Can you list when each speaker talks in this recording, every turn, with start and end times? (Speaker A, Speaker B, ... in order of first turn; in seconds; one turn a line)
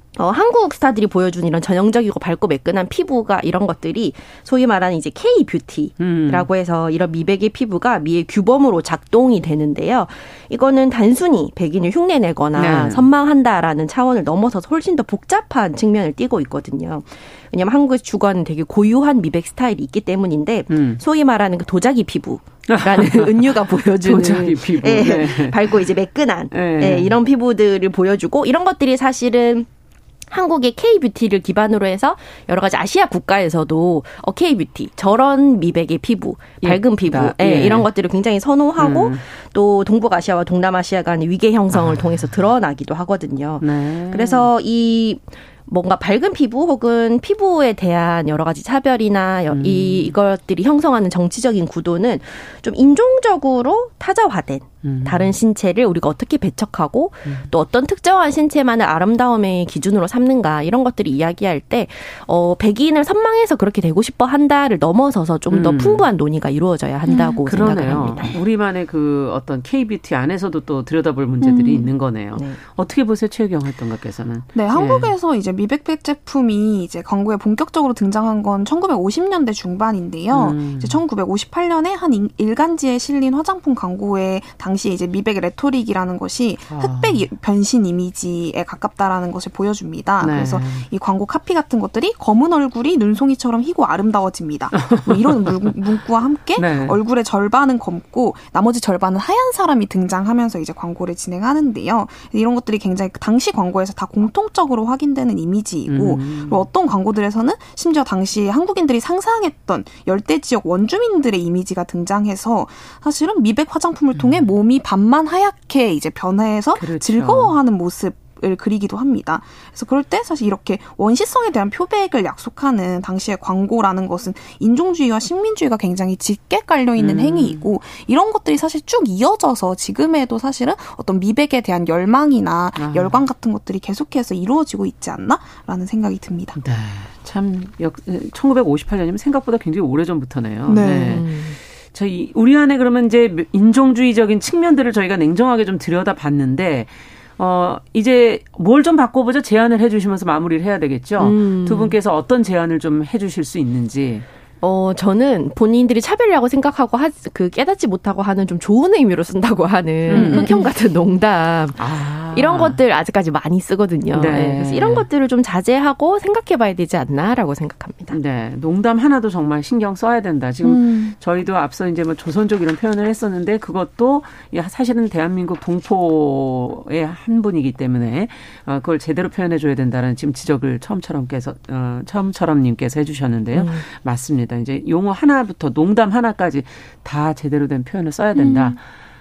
Speaker A: 0.2-29.7
Speaker B: 6.0-6.5
Speaker B: 12.5-13.0
Speaker B: 20.7-21.0
Speaker B: 22.7-25.8
Speaker B: 26.5-27.1
Speaker A: 30.3-68.3
Speaker B: 36.6-37.9
Speaker B: 38.8-39.2
Speaker B: 41.7-42.3
Speaker B: 43.6-44.5
Speaker B: 49.5-50.1
Speaker B: 54.8-55.3
Speaker B: 65.5-66.1
Speaker B: 67.2-75.1
Speaker A: 72.3-72.6
Speaker C: 74.5-136.6
Speaker B: 80.3-81.0
Speaker B: 86.7-87.3
Speaker B: 90.2-90.9
Speaker B: 94.8-95.7
Speaker B: 96.5-97.0
Speaker B: 105.9-106.6
Speaker B: 114.1-114.4
Speaker B: 116.7-117.5
Speaker B: 127.0-127.7
Speaker B: 132.8-133.2
Speaker B: 136.6-154.2
Speaker C: 140.7-141.2
Speaker A: 141.1-141.6
Speaker A: 151.2-151.9
Speaker A: 154.6-168.2
Speaker C: 160.1-160.6
Speaker B: 160.1-160.5
Speaker B: 161.8-162.8
Speaker B: 164.1-165.1
Speaker B: 168.1-188.8
Speaker C: 170.6-171.1
Speaker A: 183.5-183.8
Speaker C: 188.3-188.8